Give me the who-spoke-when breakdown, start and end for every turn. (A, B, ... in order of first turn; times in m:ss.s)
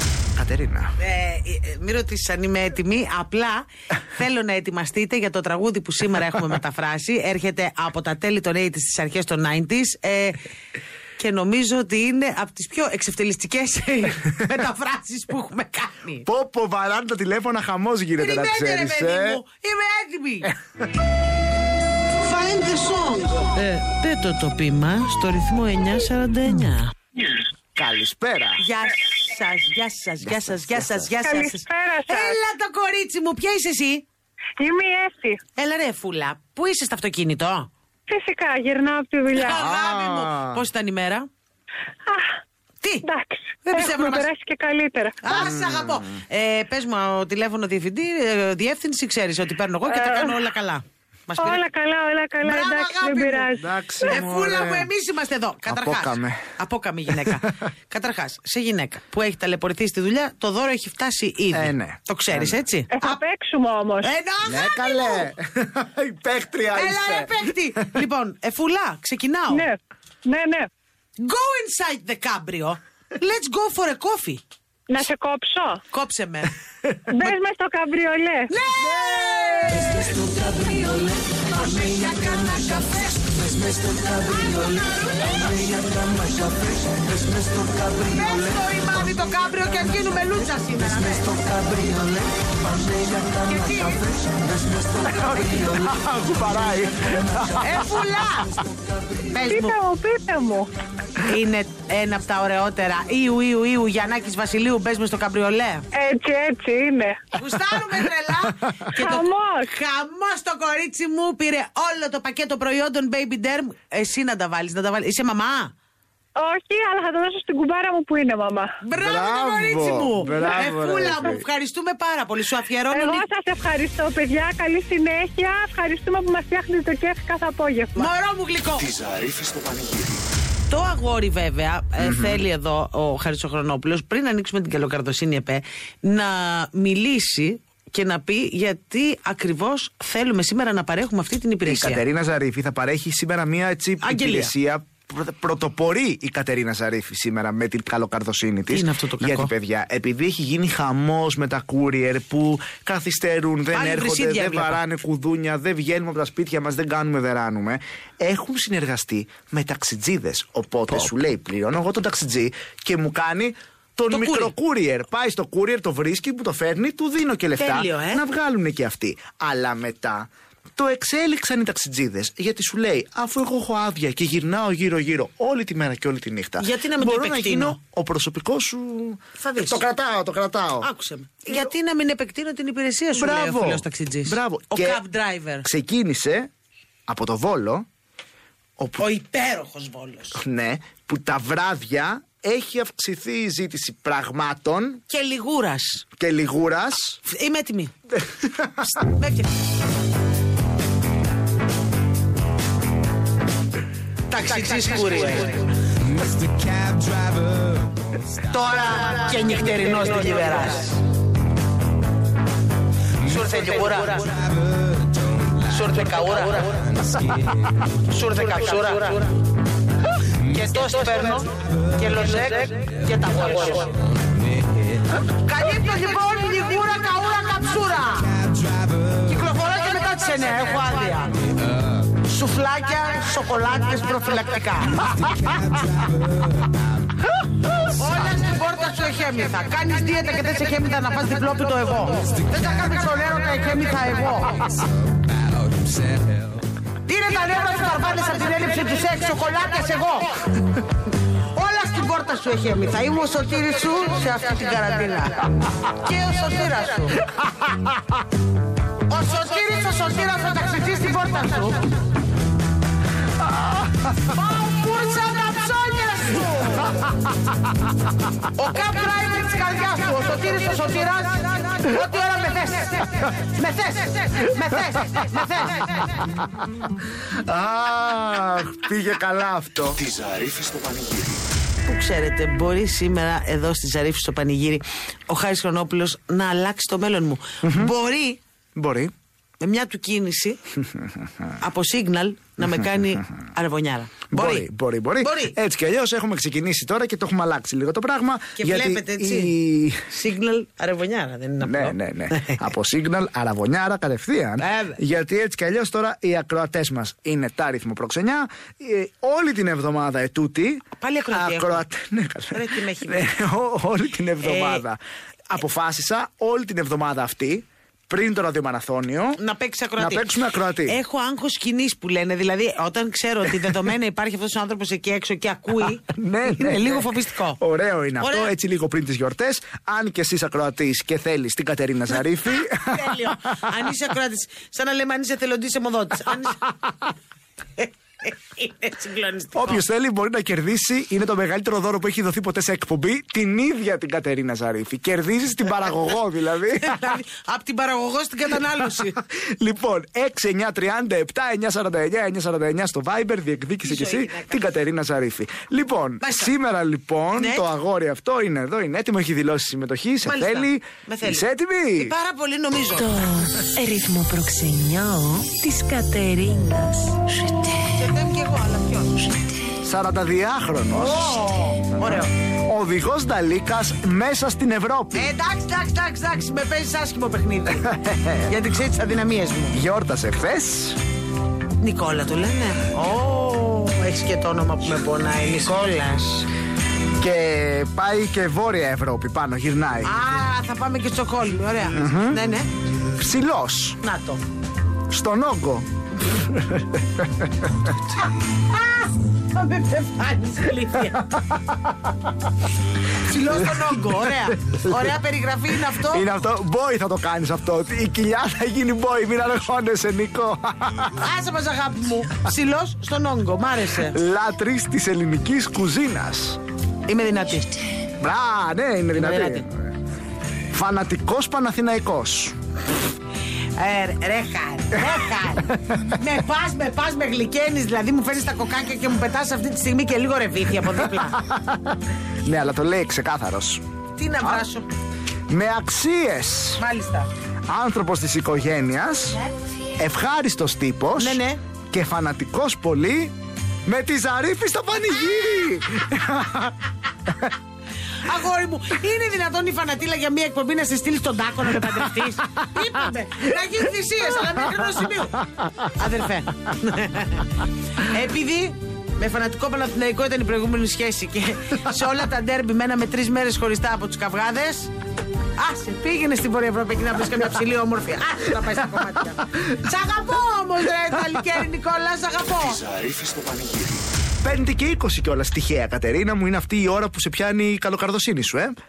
0:00.4-0:00.9 A
0:01.0-0:10.4 B
0:11.2-0:16.3 B
0:16.2-0:19.4 A
0:18.2-0:20.5 B
0:22.2-0:26.9 B
0:27.8-0:28.6 A
0:28.6-0:34.1 B
0:30.2-0:31.1 A
0:31.2-0:32.4 C
0:34.6-0:35.4 C
0:35.6-0:37.7 B
0:38.1-0:39.6 C
0:39.3-0:41.3 B
0:39.4-0:40.6 A
0:42.8-0:43.1 B
0:43.0-0:45.3 C
0:43.6-0:44.3 B
0:45.2-0:51.6 B
0:45.3-0:46.0 A
0:49.9-0:50.3 C
0:51.4-0:54.2 C
0:52.4-1:03.2 B
0:53.5-0:54.9 A
0:55.7-0:56.4 A
0:57.2-0:57.5 A
1:01.5-1:02.6 A
1:02.9-1:04.1 C
1:04.0-1:05.3 B
1:04.5-1:07.5 A
1:06.7-1:09.7 B
1:09.5-1:10.7 C
1:11.2-1:14.4 B
1:14.9-1:15.8 C
1:15.9-1:16.5 B
1:17.1-1:18.5 C
1:18.5-1:26.7 B
1:19.0-1:19.4 A
1:27.4-1:34.8 B
1:34.9-1:38.1 A
1:37.6-1:38.6 B
1:39.2-1:39.8 B
1:39.4-1:40.7 C
1:41.2-1:45.9 B
1:45.9-1:47.3 C
1:47.3-1:55.7 B
1:49.0-1:49.6 C
1:56.4-1:58.8 C
1:58.8-2:03.3 B
1:59.0-2:01.4 A
2:02.9-2:08.1 C
2:08.0-2:09.0 B
2:08.9-2:10.2 D
2:10.7-2:22.0 B
2:12.0-2:12.4 A
2:21.6-3:00.9 A
2:24.0-2:24.5 B
2:28.7-2:29.5 B
2:33.7-2:34.8 B
2:44.1-2:44.5 B
2:47.6-2:48.2 B
2:56.6-2:57.8 B
2:59.4-2:59.8 B
3:00.8-3:05.7 B
3:03.1-3:05.0 A
3:05.6-3:06.5 A
3:07.1-3:07.9 A
3:08.8-3:09.0 A
3:09.0-3:10.4 B
3:10.4-3:15.0 A
3:15.1-3:16.0 B
3:16.2-3:17.2 A
3:17.3-3:17.9 B
3:18.1-3:19.0 A
3:18.8-3:19.5 B
3:24.3-3:25.7 B
3:26.4-3:26.9 A
3:28.5-3:31.0 B
3:33.2-3:34.4 B
3:35.6-3:37.0 B
3:38.1-3:39.3 B
3:40.4-3:44.0 B
3:45.3-3:48.5 B
3:49.1-3:51.4 B
3:52.1-3:55.5 B
3:57.8-4:04.8 B
4:07.1-4:10.4 B
4:11.5-4:17.3 B
4:19.1-4:21.9 B
4:23.6-4:23.8 A
4:24.2-4:27.0 B
4:28.6-4:36.2 B
4:36.3-4:40.1 A
4:40.1-4:41.4 D
4:41.8-4:48.4 B
4:47.6-4:47.9 A
4:48.8-4:49.1 A
4:49.6-4:50.6 B
4:50.8-4:51.5 A
4:51.6-4:54.7 B
4:54.3-5:00.0 A
4:55.2-4:55.6 B
4:58.6-4:59.6 B
5:00.1-5:02.6 B
5:01.6-5:15.0 A
5:04.6-5:05.0 B
5:11.0-5:11.8 B
5:12.5-5:13.3 B
5:14.4-5:14.8 B
5:15.5-5:19.4 A
5:19.4-5:27.6 B
5:20.0-5:21.0 A
5:26.1-5:33.7 A
5:28.2-5:28.5 B
5:32.7-5:37.1 B
5:37.8-5:39.8 B
5:39.6-5:47.2 A
5:46.8-5:49.2 B
5:49.3-6:02.1 A
5:53.8-5:54.6 B
5:56.2-5:56.5 B
5:57.4-5:57.7 B
6:00.2-6:03.3 B
6:03.2-6:07.2 E
6:07.8-6:09.4 B
6:09.7-6:11.4 A
6:10.9-6:12.3 B
6:12.0-6:15.3 A
6:15.2-6:19.8 B
6:17.8-6:18.5 A
6:19.7-6:21.0 A
6:21.8-6:26.5 B
6:27.2-6:30.1 A
6:30.0-6:32.7 B
6:32.0-6:32.4 A
6:33.1-6:34.0 A
6:34.0-6:34.4 B
6:35.1-6:37.9 A
6:38.5-6:41.3 B
6:41.0-6:42.1 A
6:43.2-6:46.3 B
6:43.6-6:45.1 A
6:46.0-6:51.2 A
6:51.2-6:54.2 B
6:54.0-6:56.6 A
6:57.1-6:57.8 B
6:58.2-6:59.9 A
6:59.1-6:59.6 B
7:00.7-7:02.6 A
7:03.8-7:11.4 B
7:04.9-7:05.2 A
7:10.9-7:13.8 A
7:14.2-7:14.9 B
7:15.5-7:16.8 A
7:16.8-7:17.3 B
7:17.7-7:19.4 A
7:20.0-7:21.4 A
7:21.2-7:21.6 B
7:21.9-7:23.3 A
7:23.9-7:27.5 A
7:28.2-7:44.9 B
7:45.6-7:52.9 B
7:52.9-7:54.0 D
7:54.4-7:58.8 A